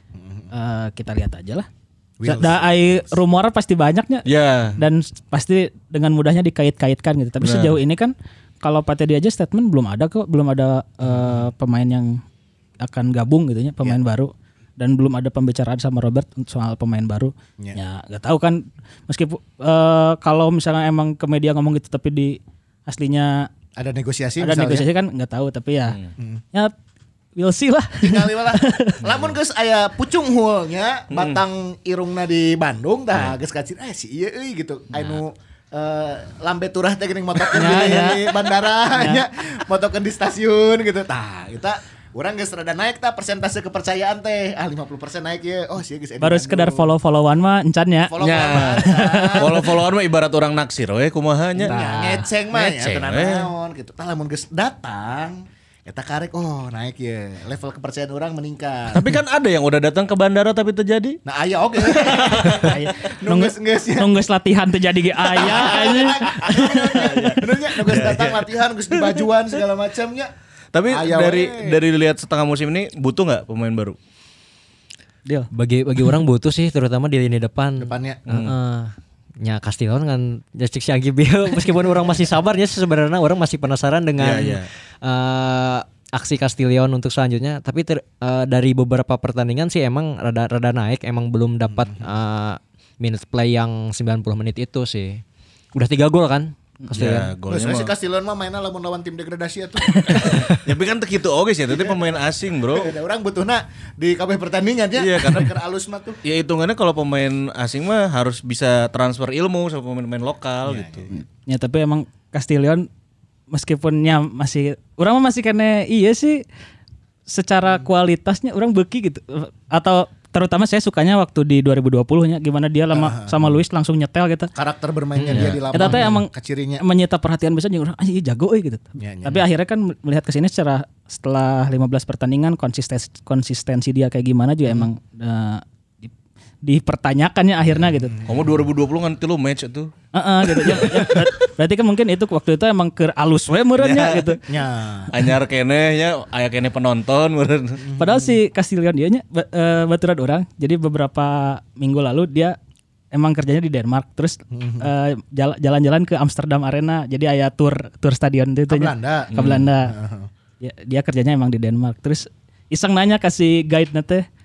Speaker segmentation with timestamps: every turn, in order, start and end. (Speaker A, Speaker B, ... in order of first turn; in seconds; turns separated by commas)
Speaker A: 0.1-0.5, Speaker B: 0.5-1.7, Speaker A: 2.2-3.2, Speaker B: 2.2-4.3, Speaker C: 4.2-4.8, Speaker B: 4.8-12.2, Speaker C: 7.4-7.8, Speaker A: 11.0-11.5, Speaker B: 12.8-23.5, Speaker A: 23.8-24.9, Speaker B: 24.4-26.0, Speaker B: 27.4-29.0, Speaker A: 28.0-46.9, Speaker C: 31.1-31.4, Speaker B: 37.5-39.2, Speaker B: 46.2-49.6, Speaker A: 48.0-49.8, Speaker C: 48.2-51.8, Speaker A: 51.6-59.1, Speaker B: 51.7-52.3, Speaker C: 52.5-53.5, Speaker C: 58.9-61.2, Speaker A: 61.2-64.2, Speaker C: 61.9-62.8, Speaker B: 62.6-67.4, Speaker A: 65.2-70.3, Speaker C: 65.4-69.2, Speaker C: 70.7-74.0, Speaker A: 70.9-71.8, Speaker D: 75.5-95.2, Speaker A: 77.8-78.2, Speaker C: 78.3-78.5, Speaker C: 84.2-84.7, Speaker A: 91.8-92.0, Speaker D: 95.7-97.3, Speaker B: 96.8-97.2, Speaker C: 96.9-97.9, Speaker A: 97.5-100.5, Speaker C: 100.1-102.9, Speaker A: 101.7-102.0, Speaker A: 102.7-106.2, Speaker C: 105.0-105.5, Speaker C: 106.2-111.1, Speaker A: 110.7-111.1, Speaker B: 111.1-112.9, Speaker B: 113.5-116.4, Speaker B: 117.3-124.5, Speaker A: 122.9-123.5, Speaker A: 124.5-126.8, Speaker C: 125.3-125.9, Speaker B: 125.7-136.1, Speaker A: 129.0-129.4, Speaker B: 136.6-138.2, Speaker A: 138.0-138.6, Speaker C: 138.2-139.9, Speaker B: 140.1-144.4, Speaker C: 140.5-141.3, Speaker C: 143.8-144.4, Speaker A: 144.5-145.1, Speaker C: 145.1-147.9, Speaker A: 147.8-148.4, Speaker B: 148.0-152.6, Speaker B: 153.1-160.0, Speaker A: 154.5-154.9, Speaker A: 158.7-160.3, Speaker C: 159.3-159.6, Speaker B: 160.6-164.2